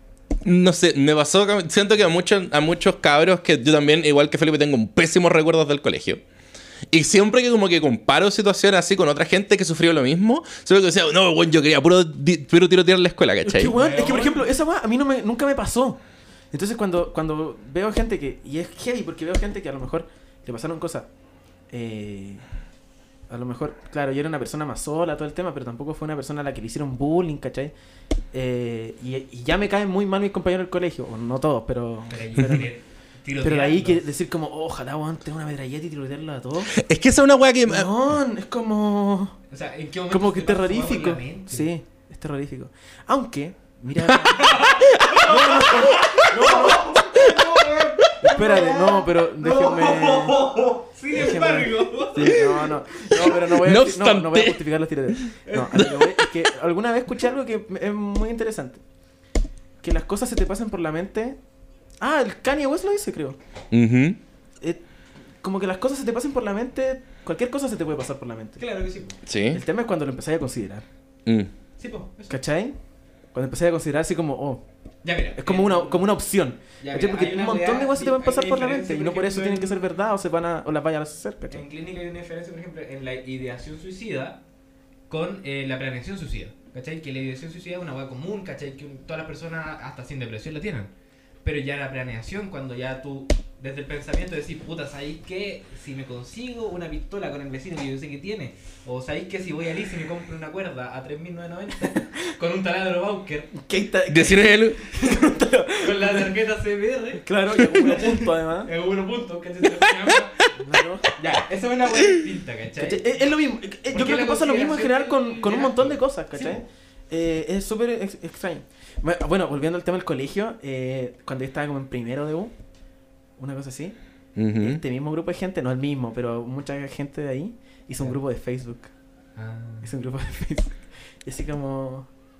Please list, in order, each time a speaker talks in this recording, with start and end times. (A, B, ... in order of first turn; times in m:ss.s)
0:00.4-0:06.2 A
0:06.9-0:13.7 A
0:13.4-0:16.0 B
0:13.6-0:14.5 C
0:16.5-0:21.1 B
0:21.7-0:22.4 B
0:23.3-0:27.7 B
0:28.3-0:32.7 B
0:32.1-0:34.1 C
0:33.4-0:36.7 B
0:36.8-0:37.9 A
0:37.6-0:39.4 B
0:39.5-0:41.7 C
0:40.1-0:47.3 B
0:44.0-0:45.2 A
0:44.2-0:52.5 C
0:48.2-0:50.4 B
0:51.1-0:58.8 B
0:53.3-0:54.6 A
0:55.5-0:55.9 C
0:55.8-0:56.1 A
0:59.8-1:01.4 B
1:02.0-1:03.4 B
1:03.7-1:04.2 A
1:05.4-1:08.6 B
1:08.6-1:09.2 C
1:09.3-1:09.6 A
1:09.5-1:10.8 B
1:11.8-1:12.4 C
1:12.3-1:12.8 B
1:13.3-1:14.6 B
1:15.0-1:16.1 C
1:15.4-1:21.6 B
1:16.8-1:19.8 C
1:21.5-1:24.4 C
1:25.1-1:30.9 C
1:31.4-1:43.5 C
1:43.5-1:46.3 B
1:44.1-1:44.8 A
1:44.9-1:50.6 C
1:47.2-1:48.7 B
1:50.5-1:51.2 B
1:51.1-1:53.2 C
1:52.8-2:02.5 B
1:53.9-1:56.6 C
2:03.4-2:04.0 B
2:04.4-2:04.8 A
2:04.6-2:08.9 B
2:09.4-2:09.9 C
2:09.8-2:12.1 B